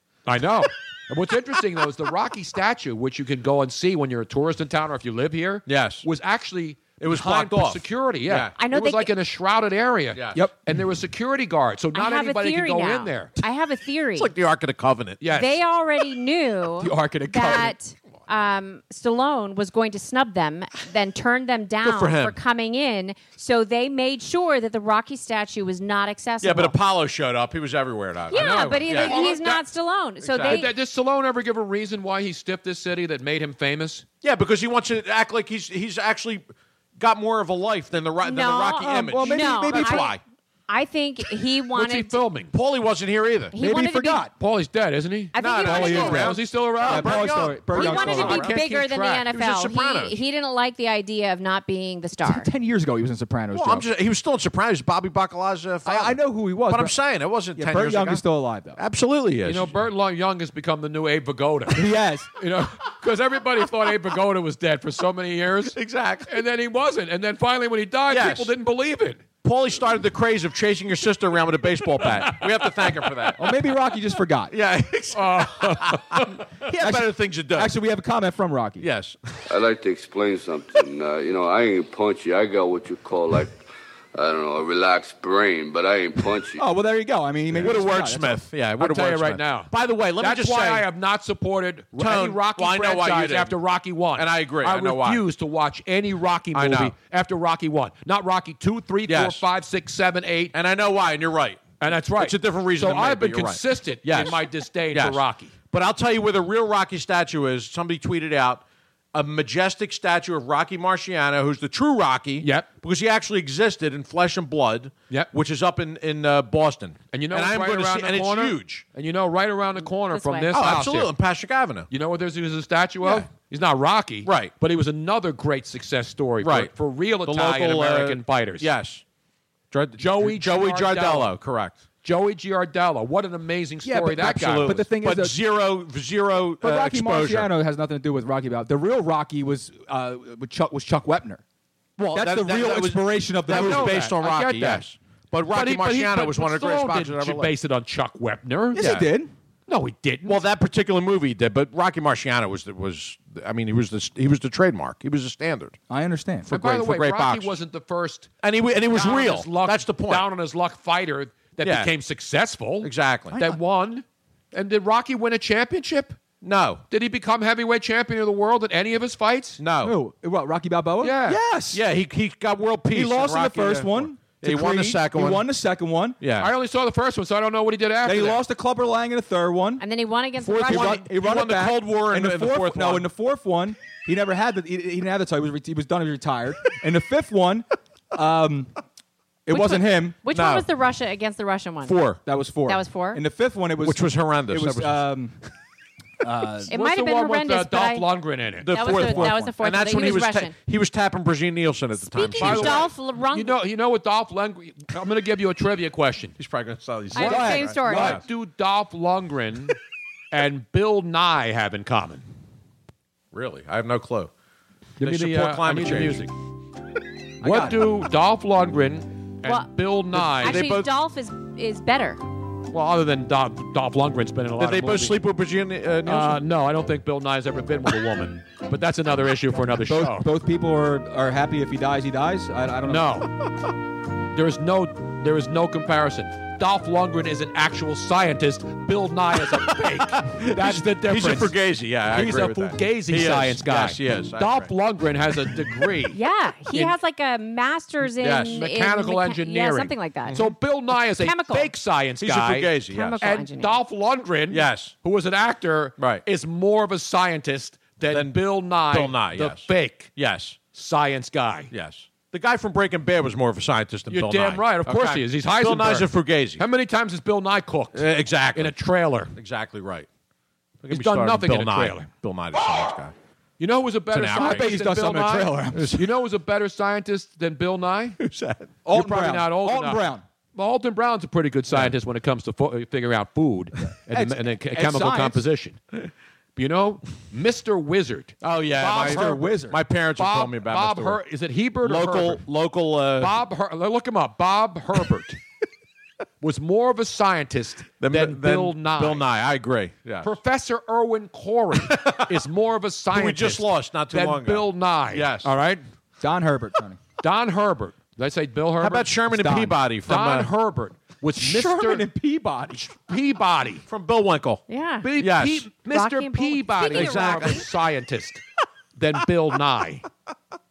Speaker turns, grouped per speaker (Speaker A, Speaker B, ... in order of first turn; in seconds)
Speaker A: 0.2-13.3, 15.2-15.6, 28.3-29.6, 30.4-34.0, 41.7-42.5, 44.4-49.3, 59.4-61.8, 62.4-65.8, 66.3-69.2, 72.4-72.7, 75.1-76.3, 88.8-100.5, 101.8-105.5, 112.4-112.7, 117.1-121.1, 121.9-128.7, 130.0-131.3, 132.0-134.9, 143.5-144.8, 145.5-149.1, 149.7-150.4, 156.5-158.3, 158.9-166.2, 166.9-169.6, 171.0-171.4, 176.4-178.4, 196.7-199.1, 202.4-206.3, 207.2-209.8, 210.3-212.2, 215.0-216.3, 217.4-220.6, 222.7-225.2, 226.1-230.3, 232.8-233.3, 234.3-241.5, 242.1-246.2, 248.5-260.1, 260.7-261.7, 264.1-269.3, 270.9-272.1, 273.6-278.2, 278.9-285.8, 286.6-289.6, 290.2-292.4, 293.2-295.4, 296.4-299.2, 300.2-305.8, 307.2-309.2, 310.0-312.1, 312.8-313.8, 315.0-318.4, 319.0-320.0
Speaker B: 5.7-6.0, 7.0-8.5, 14.1-15.2, 21.8-22.4, 26.4-29.2, 30.2-30.7, 34.2-40.2, 42.5-43.5, 45.4-48.6, 49.2-50.1, 53.5-58.2, 58.8-59.7, 65.7-66.3, 68.1-68.5, 69.4-73.4, 74.5-77.7, 78.8-79.2, 87.5-90.8, 92.0-93.5, 94.2-95.2, 96.5-96.9, 99.1-99.4, 100.5-108.6, 109.1-118.8, 120.5-121.9, 124.2-124.5, 126.4-126.7, 127.2-129.0, 129.7-131.8, 134.2-137.5, 142.0-147.5, 150.2-155.8, 156.4-157.5, 158.4-160.2, 161.6-161.9, 162.8-163.4, 166.4-166.8, 169.6-169.9, 171.7-175.5, 176.2-176.5, 180.4-183.1, 190.3-190.7, 191.8-192.2, 193.8-195.1, 198.6-202.9, 206.4-208.2, 213.3-214.3, 215.0-216.2, 220.2-220.9, 224.6-226.4, 240.1-244.7, 248.2-248.6, 250.3-250.5, 252.2-253.3, 254.5-254.9, 256.0-256.2, 258.1-260.6, 261.7-266.6, 267.9-268.8, 269.3-270.1, 270.8-273.1, 274.1-274.8, 275.7-276.0, 278.2-278.7, 288.4-291.2, 291.8-293.3, 298.0-300.3, 301.8-302.4, 303.1-305.5, 308.8-310.5, 313.9-314.6, 315.1-315.7, 316.9-317.7
Speaker C: 8.6-9.1, 11.9-14.3, 15.3-26.8, 28.3-30.7, 38.2-40.2, 40.7-42.2, 43.5-44.3, 45.3-46.2, 47.7-52.5, 120.1-120.6, 179.8-181.1, 189.5-191.9, 192.6-193.2, 196.7-198.1, 198.7-200.5, 202.1-203.6, 207.1-208.2, 220.4-222.2, 246.1-250.4, 251.2-251.7, 252.9-253.8, 314.7-315.1, 315.9-317.6
Speaker D: 16.8-17.7, 38.9-40.1, 43.6-44.3, 45.7-48.5, 52.2-53.9, 55.8-56.9, 57.5-58.8, 61.7-62.3, 73.4-74.5, 76.8-78.8, 86.6-88.4, 133.8-135.4, 136.6-141.4, 142.1-144.1, 148.7-149.3, 155.9-156.5, 169.8-171.8, 172.9-176.2, 178.0-179.8, 180.6-188.7, 189.4-190.2, 192.2-195.3, 196.2-196.7, 198.8-199.5, 207.2-208.2, 217.4-217.9, 229.9-233.1, 274.3-275.9, 278.8-280.2, 284.1-285.4, 288.9-289.8, 306.2-307.0, 309.3-309.8, 311.4-312.9
Speaker E: 79.5-86.6